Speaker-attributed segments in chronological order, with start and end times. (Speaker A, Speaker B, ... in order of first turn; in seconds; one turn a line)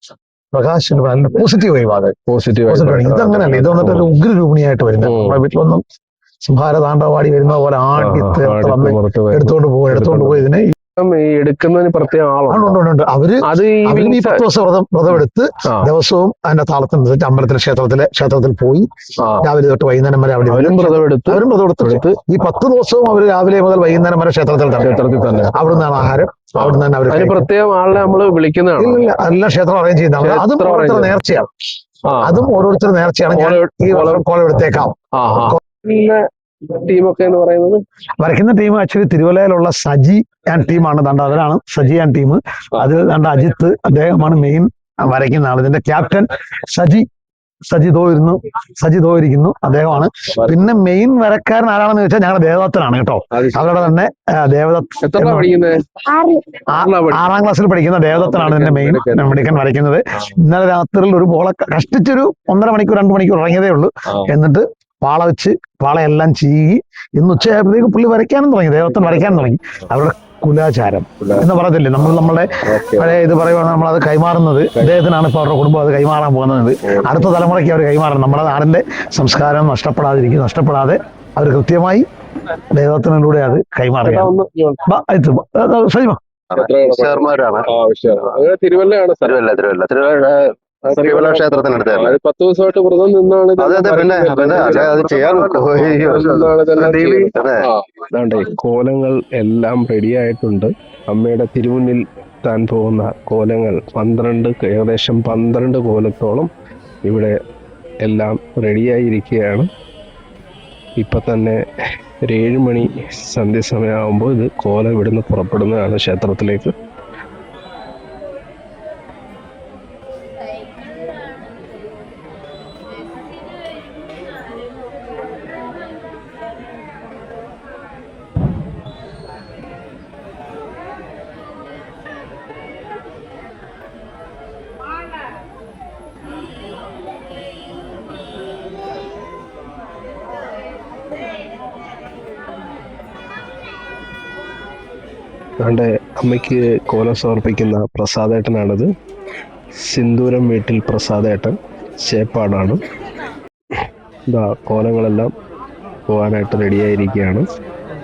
Speaker A: 0.5-2.2
Speaker B: 2.3-4.1
Speaker A: 2.7-5.8
Speaker B: 5.0-5.4
Speaker A: 6.4-10.8
Speaker B: 8.0-10.4
Speaker B: 11.0-12.8
Speaker A: 12.5-18.9
Speaker B: 13.4-14.4
Speaker B: 15.7-15.9
Speaker B: 19.2-19.5
Speaker A: 19.4-27.5
Speaker B: 20.5-22.1
Speaker B: 24.8-25.6
Speaker B: 26.6-29.1
Speaker A: 28.8-31.5
Speaker B: 30.2-31.2
Speaker B: 32.1-32.6
Speaker A: 32.2-35.6
Speaker B: 33.3-34.2
Speaker B: 35.2-37.8
Speaker A: 38.2-47.1
Speaker A: 47.7-55.5
Speaker B: 50.3-50.7
Speaker B: 53.3-54.0
Speaker B: 55.0-55.8
Speaker A: 56.0-82.1
Speaker B: 56.7-57.3
Speaker B: 58.1-59.6
Speaker B: 68.9-69.5
Speaker B: 71.2-73.4
Speaker B: 76.8-77.5
Speaker A: 82.7-84.3
Speaker B: 84.0-84.8
Speaker A: 84.9-86.2
Speaker C: 86.5-87.7
Speaker B: 86.5-89.5
Speaker C: 89.2-92.2
Speaker B: 90.8-106.5
Speaker C: 93.6-97.7
Speaker B: 107.1-107.4
Speaker B: 108.0-109.7
Speaker B: 111.0-111.6
Speaker B: 112.2-116.7
Speaker B: 145.6-148.9
Speaker B: 149.8-152.8
Speaker B: 154.3-155.3
Speaker B: 156.1-157.5